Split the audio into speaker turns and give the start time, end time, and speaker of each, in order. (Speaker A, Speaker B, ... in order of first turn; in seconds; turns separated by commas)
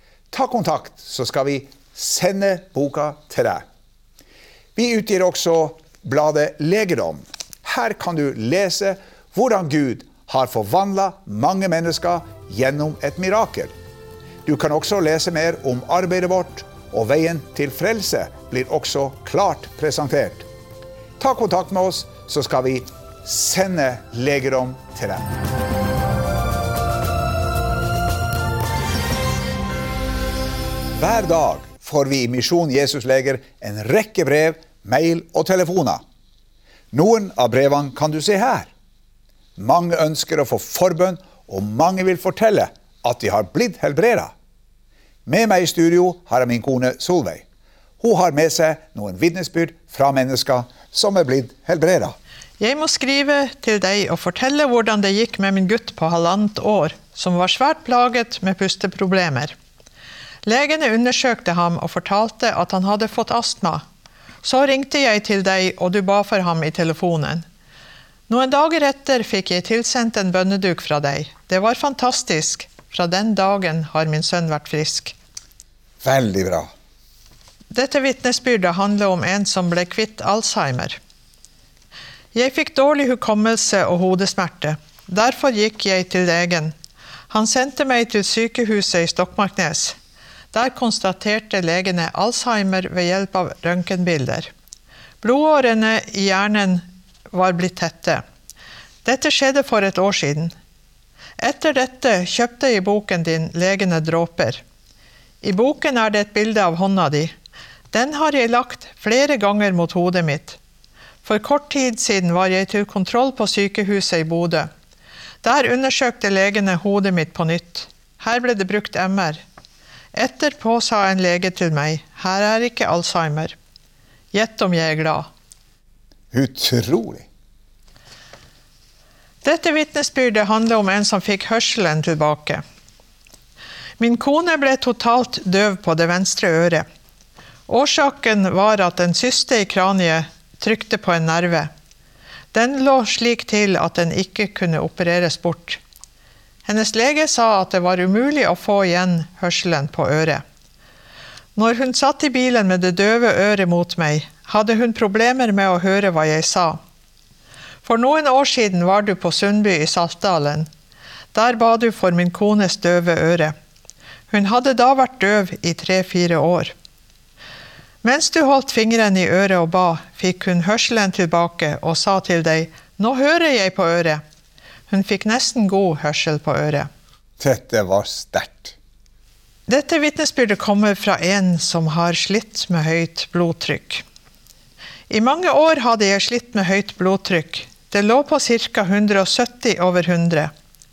Speaker A: 0.3-3.6, Speaker A: 4.8-13.7, Speaker A: 14.4-20.5, Speaker A: 21.2-25.3, Speaker A: 31.0-36.0, Speaker A: 36.9-38.7, Speaker A: 39.6-44.3, Speaker A: 45.3-47.4, Speaker A: 48.0-52.2, Speaker B: 52.6-59.5, Speaker B: 60.5-63.9, Speaker B: 64.4-67.5, Speaker B: 68.3-75.2, Speaker A: 76.0-76.7, Speaker B: 77.7-81.0, Speaker B: 82.3-86.7, Speaker B: 87.3-90.0, Speaker B: 90.5-94.5, Speaker B: 95.2-98.2, Speaker B: 99.0-100.5, Speaker B: 101.4-104.6, Speaker B: 105.4-107.3, Speaker B: 107.9-110.6, Speaker B: 111.2-114.7, Speaker B: 115.4-119.4, Speaker B: 120.1-123.5, Speaker B: 124.3-125.3, Speaker A: 126.3-127.3, Speaker B: 129.4-132.6, Speaker B: 134.0-136.8, Speaker B: 137.7-141.7, Speaker B: 142.5-145.8, Speaker B: 146.7-150.4, Speaker B: 151.6-156.8, Speaker B: 157.8-160.7, Speaker B: 161.3-163.6, Speaker B: 164.3-166.7, Speaker B: 168.0-174.2, Speaker B: 174.9-176.9, Speaker A: 177.4-178.8, Speaker B: 179.7-184.0, Speaker B: 185.1-190.5